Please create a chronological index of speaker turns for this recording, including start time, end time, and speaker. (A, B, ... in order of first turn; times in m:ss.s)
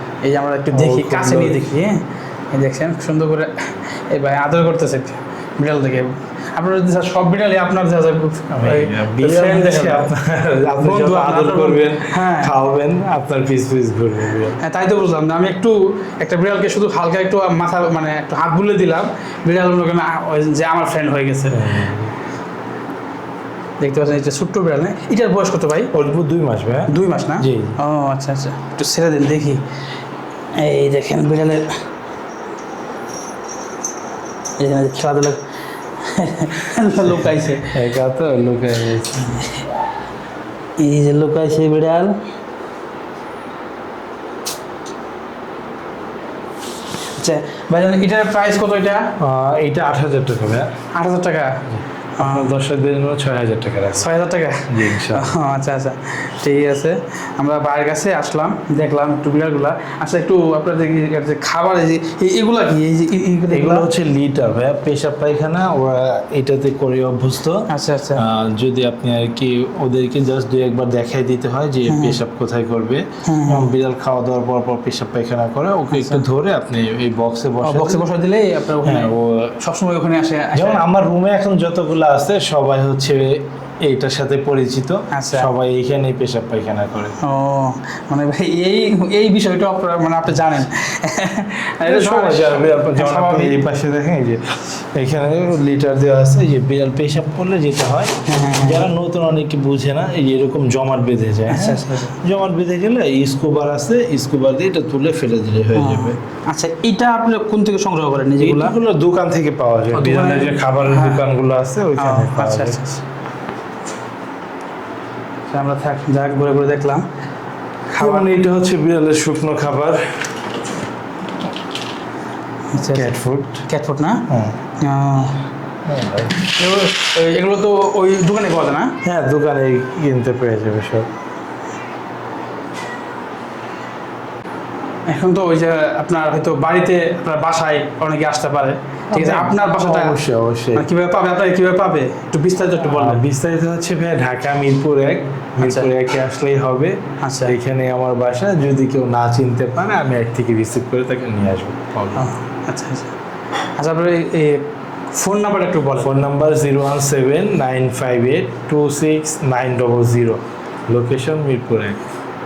0:00.2-0:10.1 A
0:00.7-0:01.8 B
0:08.5-0:14.6 B
0:10.8-0:12.5 A
0:14.6-0:21.7 A
0:21.5-0:22.1 B
0:23.8-0:25.9 A
0:25.9-0:27.8 B
0:26.9-0:29.6 A
0:30.5-0:31.8 A
0:34.6-0:35.4 A
0:36.0-0:37.7 A
0:37.1-0:39.5 B
0:40.8-0:42.2 A
0:47.2-0:49.1 A
0:49.2-0:50.7 B
0:50.9-0:51.6 A
0:51.8-0:54.1 B
0:52.2-0:52.6 A
0:54.0-1:03.9 A
0:54.7-0:55.4 B
1:03.5-1:18.0 B
1:07.7-1:08.2 A
1:11.9-1:12.2 A
1:13.2-1:13.7 A
1:15.9-1:16.2 A
1:17.6-1:20.8 A
1:18.8-1:19.6 B
1:20.5-1:27.2 B
1:25.1-1:25.5 A
1:27.2-1:33.6 A
1:31.8-1:46.2 B
1:38.3-1:38.9 A
1:41.5-1:42.2 A
1:45.8-1:48.8 A
1:48.4-1:52.8 B
1:49.9-1:51.3 A
1:52.0-1:53.0 A
1:55.5-1:57.0 A
1:58.0-1:58.4 A
1:58.0-2:00.0 B
2:02.7-2:03.2 A
2:02.8-2:03.6 B
2:03.7-2:04.2 A
2:04.3-2:04.6 B
2:04.8-2:05.4 A
2:05.9-2:06.4 B
2:06.4-2:09.0 A
2:09.0-2:11.1 B
2:15.1-2:20.2 A
2:19.1-2:20.8 B
2:20.8-2:23.2 A
2:22.8-2:32.3 B
2:25.6-2:25.9 A
2:27.2-2:27.6 A
2:32.2-2:33.1 A
2:33.8-2:36.1 A
2:36.0-2:42.0 B